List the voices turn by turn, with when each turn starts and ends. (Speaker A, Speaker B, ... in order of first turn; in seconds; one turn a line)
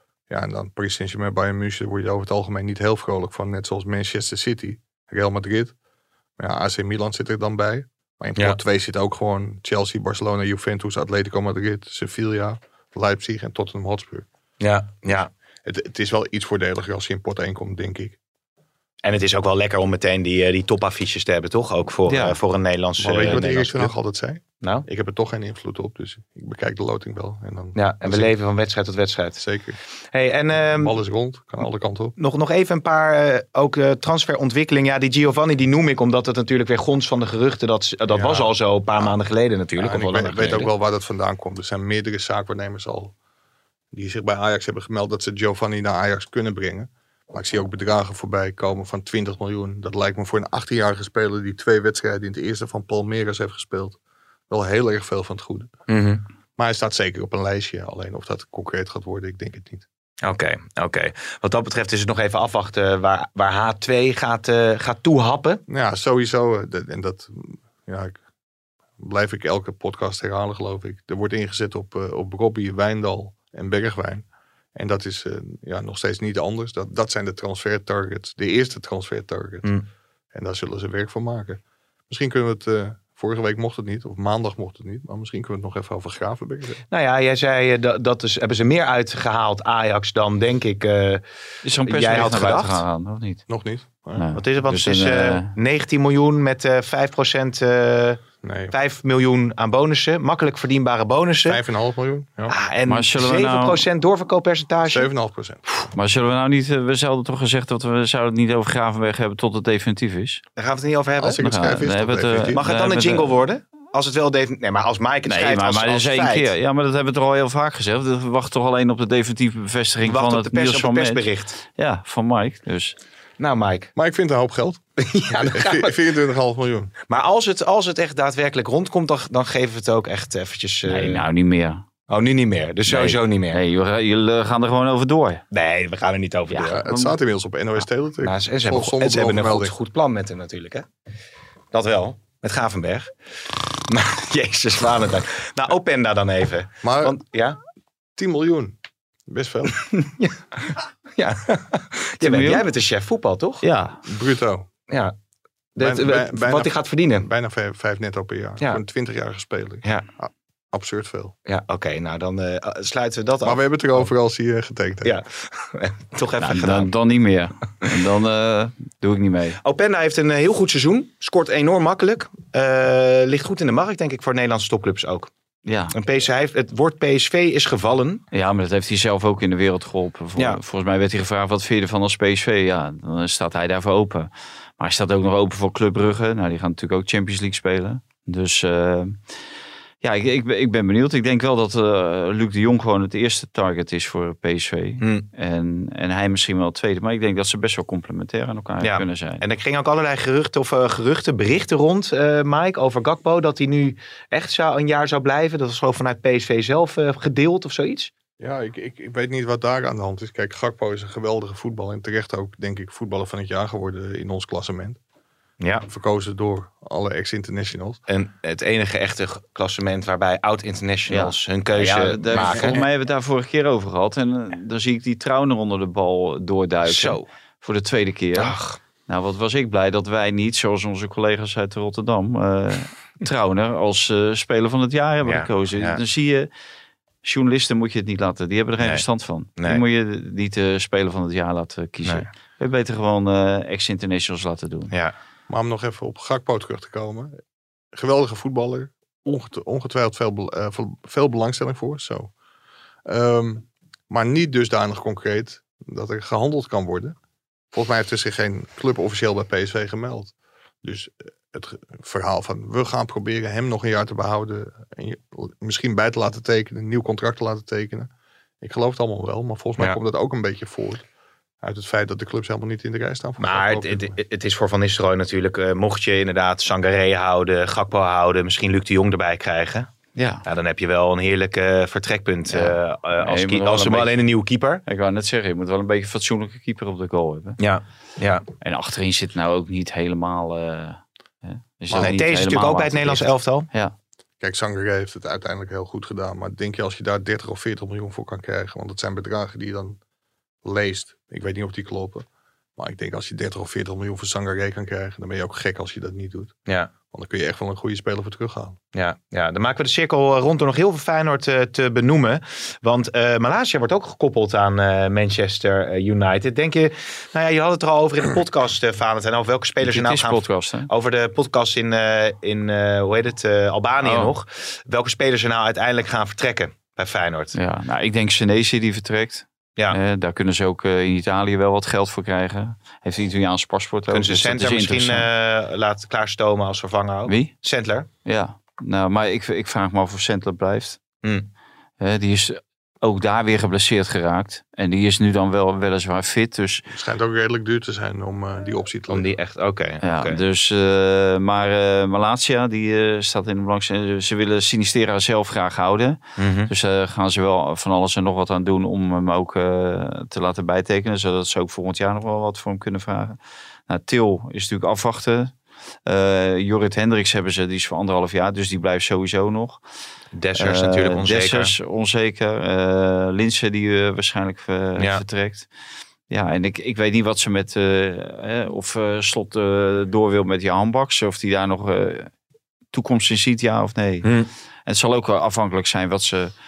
Speaker A: 0.3-5.8
Speaker A: 6.4-14.3
Speaker B: 14.6-15.3
Speaker A: 15.6-18.2
Speaker B: 19.0-23.9
Speaker C: 22.1-22.4
Speaker A: 23.0-28.3
Speaker B: 27.7-29.5
Speaker A: 29.4-29.8
Speaker B: 30.1-31.0
Speaker A: 30.8-32.1
Speaker B: 32.2-40.7
Speaker A: 38.1-39.1
Speaker A: 39.8-43.1
Speaker A: 43.9-54.0
Speaker A: 54.5-55.7
Speaker B: 55.9-56.2
Speaker A: 56.6-59.9
Speaker B: 60.2-65.6
Speaker A: 65.7-68.2
Speaker A: 69.0-79.7
Speaker A: 80.3-86.8
Speaker B: 86.9-91.2
Speaker C: 91.6-93.4
Speaker B: 91.8-92.8
Speaker A: 93.5-94.3
Speaker C: 94.2-95.5
Speaker B: 94.3-101.6
Speaker A: 98.4-98.7
Speaker A: 101.4-102.5
Speaker B: 102.5-105.1
Speaker C: 102.9-103.8
Speaker A: 104.8-105.7
Speaker C: 105.9-110.4
Speaker B: 110.6-111.5
Speaker A: 111.2-112.6
Speaker C: 111.4-113.3
Speaker B: 112.5-116.5
Speaker C: 115.3-122.9
Speaker B: 120.1-121.6
Speaker B: 123.4-123.9
Speaker A: 124.0-124.8
Speaker B: 125.0-126.0
Speaker A: 125.4-126.9
Speaker B: 127.1-131.2
Speaker C: 130.8-131.8
Speaker B: 132.1-133.6
Speaker C: 132.9-135.4
Speaker B: 135.5-136.8
Speaker C: 136.5-137.1
Speaker A: 136.7-139.7
Speaker B: 138.2-140.9
Speaker B: 141.7-147.6
Speaker A: 146.8-147.2
Speaker A: 148.2-148.8
Speaker A: 149.3-149.8
Speaker B: 149.7-153.6
Speaker C: 152.2-152.6
Speaker C: 153.6-154.0
Speaker A: 154.1-154.7
Speaker B: 154.9-155.1
Speaker B: 155.8-157.3
Speaker A: 155.8-161.3
Speaker B: 161.5-164.1
Speaker A: 163.4-165.2
Speaker B: 165.0-166.9
Speaker C: 166.4-169.6
Speaker B: 169.6-175.3
Speaker C: 175.7-175.9
Speaker B: 175.9-178.2
Speaker C: 178.3-189.2
Speaker C: 190.0-199.4
Speaker B: 195.0-195.2
Speaker B: 198.8-208.1
Speaker A: 208.4-215.0
Speaker B: 215.6-215.9
Speaker A: 215.9-218.0
Speaker B: 218.1-222.8
Speaker C: 221.1-236.5
Speaker B: 226.8-227.2
Speaker B: 228.3-228.8
Speaker B: 235.2-236.0
Speaker C: 237.2-244.9
Speaker A: 245.5-247.4
Speaker A: 247.9-252.3
Speaker A: 253.1-257.1
Speaker A: 257.7-268.1
Speaker A: 268.6-271.1
Speaker A: 271.6-274.2
Speaker B: 273.4-279.9
Speaker C: 280.1-280.4
Speaker B: 280.4-284.8
Speaker C: 282.5-284.1
Speaker C: 284.9-287.6
Speaker B: 287.6-288.4
Speaker C: 288.6-293.9
Speaker A: 291.9-292.1
Speaker B: 292.0-293.7
Speaker A: 294.4-300.0
Speaker A: 300.6-302.2
Speaker A: 302.8-306.5
Speaker A: 307.1-308.8
Speaker B: 308.9-327.5
Speaker C: 319.8-320.9
Speaker C: 324.0-324.3
Speaker C: 327.5-335.3
Speaker B: 334.1-338.1
Speaker C: 337.3-337.5
Speaker C: 338.2-341.0
Speaker B: 341.2-341.5
Speaker C: 342.0-346.8
Speaker A: 346.9-349.3
Speaker B: 349.1-350.4
Speaker C: 350.0-365.5
Speaker B: 356.4-356.7
Speaker C: 366.1-369.8
Speaker B: 370.3-371.7
Speaker C: 370.6-375.7
Speaker B: 375.0-375.2
Speaker C: 376.3-382.3
Speaker C: 382.9-384.3
Speaker B: 384.2-384.5
Speaker C: 384.9-386.5